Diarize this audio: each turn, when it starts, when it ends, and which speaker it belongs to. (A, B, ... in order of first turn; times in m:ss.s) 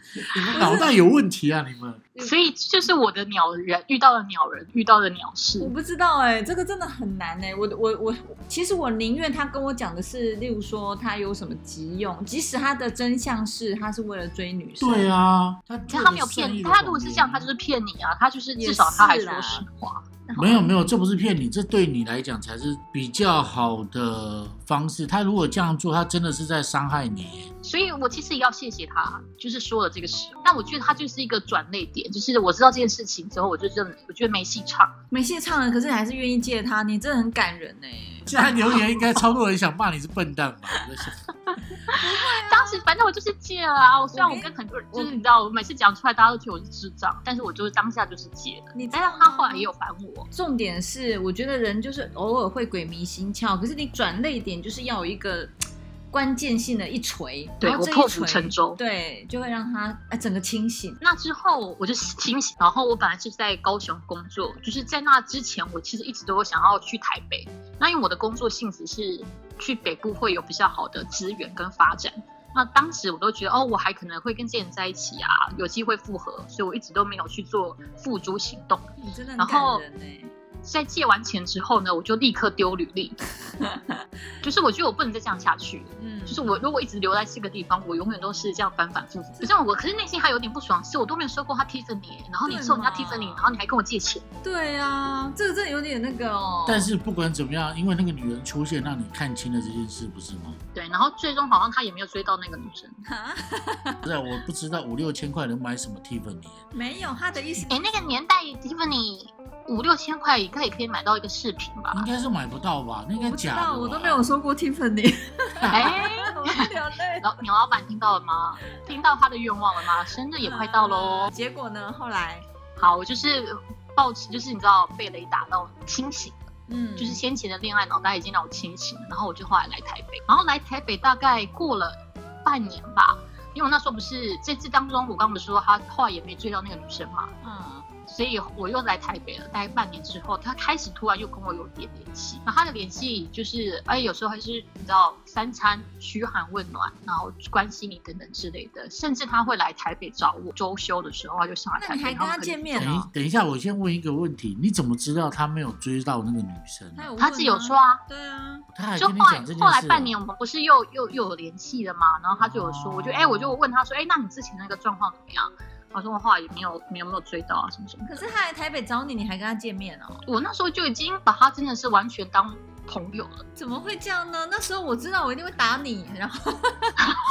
0:00.2-0:02.1 A
0:00.5-0:00.9 B
0:02.2-0:05.7 C
0:05.6-0:15.1 B
0:14.8-0:17.5 A
0:15.9-0:20.1 C
0:18.6-0:19.6 B
0:20.3-0:20.6 B
0:20.4-0:27.5 A
0:27.6-0:35.0 C
0:35.1-0:38.3 B
0:38.3-0:41.2 A
0:41.9-0:42.8 B
0:41.9-0:50.3 C
0:44.1-0:45.2 B
0:48.7-0:49.7 B
0:50.3-0:55.5 B
0:56.1-1:01.0 B
0:57.6-0:58.8 C
1:01.0-1:18.9 C
1:19.0-1:20.3 B
1:19.4-1:19.8 C
1:20.6-1:23.2 C
1:23.6-1:24.0 B
1:24.4-1:34.3 C
1:26.0-1:26.6 B
1:32.5-1:33.4 B
1:34.4-1:36.9 B
1:36.7-1:40.6 A
1:40.7-1:43.0 C
1:43.0-1:44.0 B
1:44.0-1:46.6 A
1:46.7-1:47.8 B
1:47.7-1:52.1 C
1:51.9-1:54.2 A
1:53.2-1:57.3 B
1:55.6-1:56.0 A
1:55.7-1:56.7 C
1:57.2-2:01.3 C
2:00.4-2:02.4 B
2:02.8-2:06.4 C
2:06.7-2:07.2 B
2:07.0-2:17.3 C
2:17.4-2:17.9 B
2:18.1-2:33.0 C
2:31.8-2:33.1 B
2:32.8-2:37.1 A
2:37.0-2:38.7 B
2:37.2-2:38.0 C
2:38.7-2:40.2 A
2:39.0-2:48.2 C
2:42.4-2:43.5 A
2:48.1-2:50.2 B
2:50.3-2:53.4 C
2:53.6-2:57.2 B